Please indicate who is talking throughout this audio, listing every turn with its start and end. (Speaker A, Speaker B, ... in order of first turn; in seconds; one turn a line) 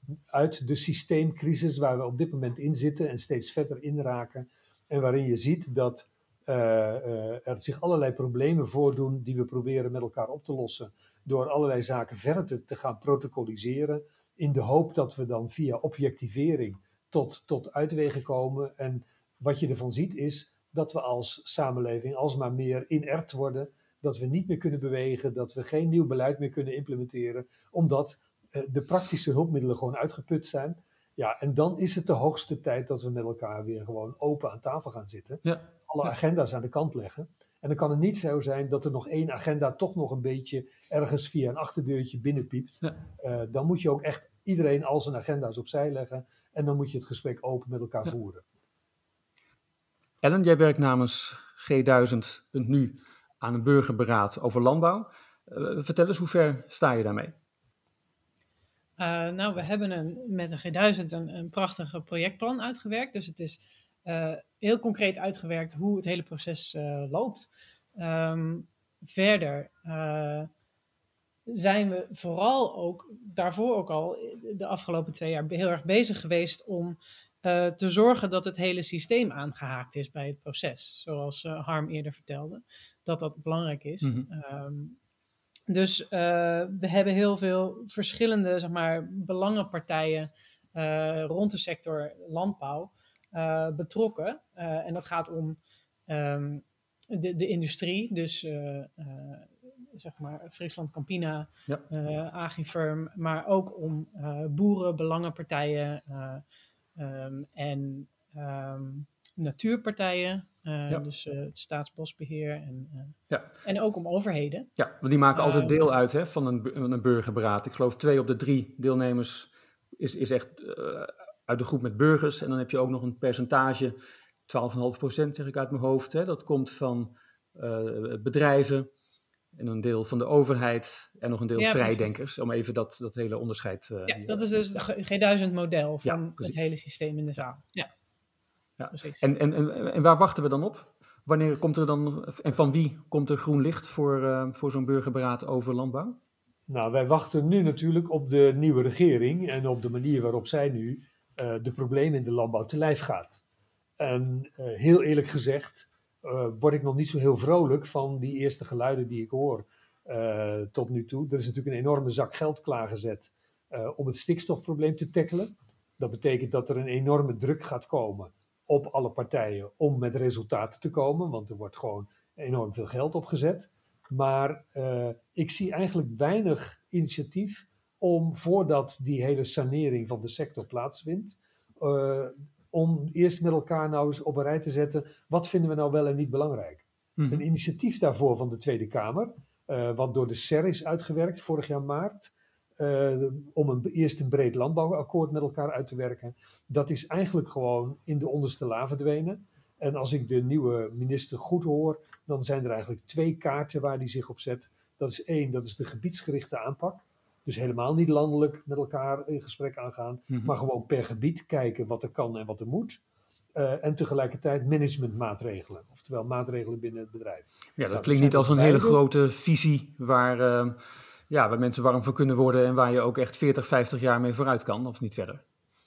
Speaker A: 0.3-48.4
Speaker B: 35.4-36.1
Speaker B: 50.2-57.4
Speaker C: 59.0-70.5
Speaker C: 71.5-85.0
Speaker B: 84.0-84.3
Speaker C: 85.7-106.4
Speaker C: 107.0-114.7
Speaker B: 114.8-124.0
Speaker C: 115.3-115.8
Speaker B: 124.5-128.9
Speaker B: 129.5-134.4
Speaker C: 131.6-132.1
Speaker C: 134.1-137.9
Speaker B: 136.0-136.6
Speaker B: 138.8-146.2
Speaker C: 138.9-139.2
Speaker A: 146.7-153.4
Speaker A: 154.0-213.0
Speaker B: 187.2-187.4
Speaker A: 213.6-219.0
Speaker B: 217.8-220.8
Speaker B: 221.3-225.4